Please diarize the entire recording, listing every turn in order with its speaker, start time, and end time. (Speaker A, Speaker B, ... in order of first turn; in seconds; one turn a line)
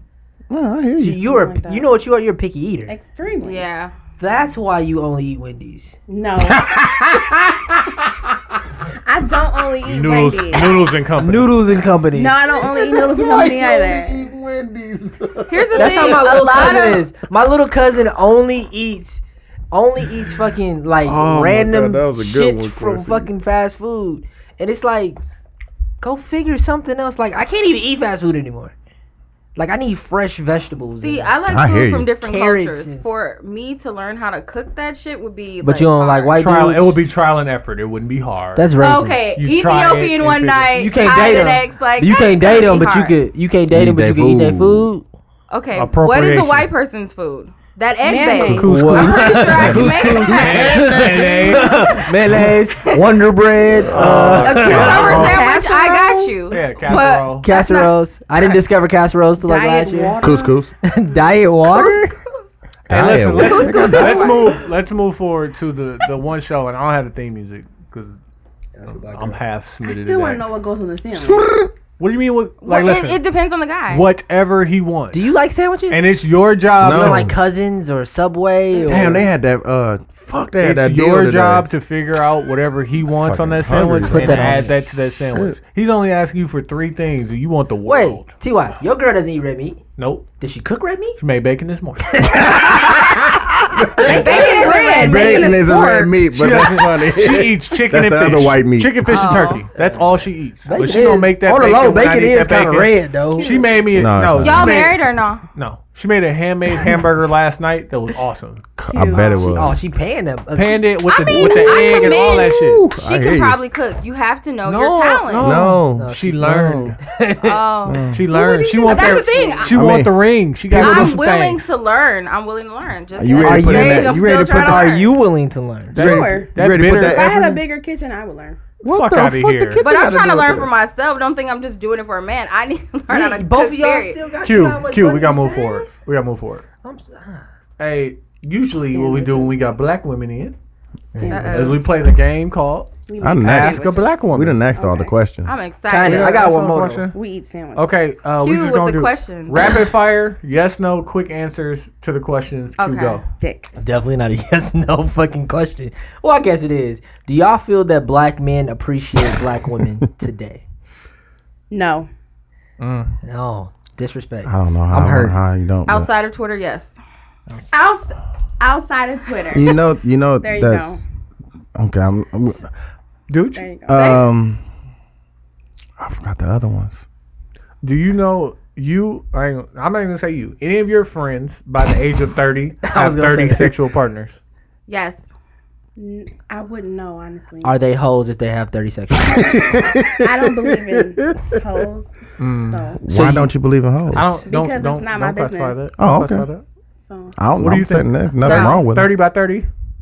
Speaker A: 0.5-1.2
Speaker B: 1.0-2.9
Speaker C: 1.2-1.9
Speaker C: 2.9-3.6
Speaker D: 3.4-3.9
Speaker B: 4.2-6.0
Speaker C: 6.1-6.7
Speaker A: 6.6-7.3
Speaker C: 9.0-10.9
Speaker E: 9.8-11.8
Speaker B: 11.2-12.4
Speaker C: 12.1-14.3
Speaker A: 12.6-16.4
Speaker D: 15.5-17.1
Speaker B: 15.7-25.2
Speaker A: 21.0-23.3
Speaker B: 26.0-28.7
Speaker B: 29.6-31.4
Speaker D: 31.0-36.3
Speaker A: 31.5-32.1
Speaker B: 32.2-33.1
Speaker B: 35.6-37.0
Speaker E: 36.4-38.7
Speaker B: 38.5-39.2
Speaker D: 38.8-43.1
Speaker E: 39.4-40.7
Speaker B: 40.7-45.0
Speaker A: 43.7-44.9
Speaker D: 45.5-50.8
Speaker E: 45.7-46.7
Speaker C: 48.0-49.6
Speaker E: 48.4-52.5
Speaker B: 48.5-55.3
Speaker A: 49.5-51.6
Speaker A: 53.9-55.4
Speaker E: 53.9-55.4
Speaker D: 54.4-58.6
Speaker C: 54.8-56.5
Speaker E: 56.5-57.5
Speaker B: 57.4-60.2
Speaker C: 59.4-60.6
Speaker A: 60.2-60.7
Speaker B: 60.8-62.1
Speaker D: 61.7-62.5
Speaker A: 62.9-64.5
Speaker E: 62.9-68.2
Speaker D: 63.3-64.6
Speaker B: 68.8-69.4
Speaker E: 68.9-70.5
Speaker C: 69.8-71.5
Speaker A: 71.1-71.7
Speaker E: 72.0-73.2
Speaker D: 72.6-74.1
Speaker E: 73.9-75.3
Speaker B: 75.1-76.0
Speaker E: 75.9-77.3
Speaker B: 76.8-79.3
Speaker A: 76.8-77.3
Speaker A: 78.8-81.7
Speaker E: 80.6-88.3
Speaker A: 83.2-84.7
Speaker B: 84.0-84.7
Speaker A: 85.3-85.6
Speaker B: 87.8-89.8
Speaker E: 90.0-90.3
Speaker B: 90.4-91.2
Speaker E: 91.2-92.2
Speaker B: 92.1-95.0
Speaker A: 92.5-93.1
Speaker A: 94.0-99.5
Speaker C: 94.0-96.2
Speaker D: 94.0-95.7
Speaker E: 96.2-105.0
Speaker D: 99.1-99.6
Speaker B: 99.8-100.1
Speaker B: 100.7-103.6
Speaker C: 103.3-103.8
Speaker A: 103.9-104.9
Speaker D: 104.4-105.4
Speaker E: 105.5-108.6
Speaker A: 108.8-109.8
Speaker C: 108.9-109.5
Speaker D: 109.1-109.4
Speaker B: 109.3-111.4
Speaker E: 110.5-112.8
Speaker D: 111.0-115.6
Speaker A: 111.3-113.6
Speaker E: 114.7-117.0
Speaker A: 115.4-117.0
Speaker B: 115.9-117.6
Speaker D: 117.4-118.1
Speaker A: 117.8-118.2
Speaker E: 118.1-121.7
Speaker C: 118.3-119.7
Speaker D: 118.8-119.8
Speaker A: 119.7-120.1
Speaker A: 120.7-121.2
Speaker D: 120.8-125.1
Speaker A: 123.2-124.9
Speaker B: 123.4-126.1
Speaker E: 125.9-127.4
Speaker A: 125.9-127.6
Speaker C: 126.0-128.6
Speaker A: 128.8-130.7
Speaker E: 128.8-129.8
Speaker D: 129.8-134.2
Speaker B: 133.1-135.9
Speaker E: 134.4-136.6
Speaker B: 136.8-137.4
Speaker E: 137.8-140.6
Speaker C: 138.9-139.7
Speaker B: 141.1-141.6
Speaker C: 141.1-141.8
Speaker D: 141.3-141.8
Speaker E: 141.5-144.6
Speaker C: 143.1-145.1
Speaker A: 143.2-145.6
Speaker D: 145.4-146.4
Speaker B: 145.9-147.1
Speaker E: 146.0-147.1
Speaker C: 147.1-148.1
Speaker E: 147.7-153.2
Speaker D: 148.4-149.7
Speaker D: 152.8-153.2
Speaker C: 153.4-153.8
Speaker B: 153.8-160.6
Speaker C: 161.7-162.1
Speaker E: 162.8-163.2
Speaker B: 163.2-165.4
Speaker A: 164.4-166.1
Speaker D: 165.9-166.9
Speaker C: 167.7-169.8
Speaker A: 169.5-171.0
Speaker C: 170.4-171.0
Speaker A: 171.8-172.7
Speaker E: 173.3-173.7
Speaker C: 173.5-174.1
Speaker A: 173.9-174.6
Speaker D: 173.9-174.2
Speaker A: 176.0-177.0
Speaker E: 177.8-184.4
Speaker B: 182.9-183.7
Speaker D: 184.9-185.3
Speaker C: 186.0-187.8
Speaker B: 187.6-189.6
Speaker A: 189.3-191.5
Speaker C: 190.1-193.0
Speaker E: 192.4-192.9
Speaker A: 193.0-194.4
Speaker B: 193.1-193.5
Speaker B: 194.1-194.4
Speaker E: 194.1-196.6
Speaker C: 194.4-195.9
Speaker A: 196.0-196.5
Speaker C: 197.0-197.3
Speaker A: 197.4-199.2
Speaker E: 197.6-199.7
Speaker D: 198.4-198.8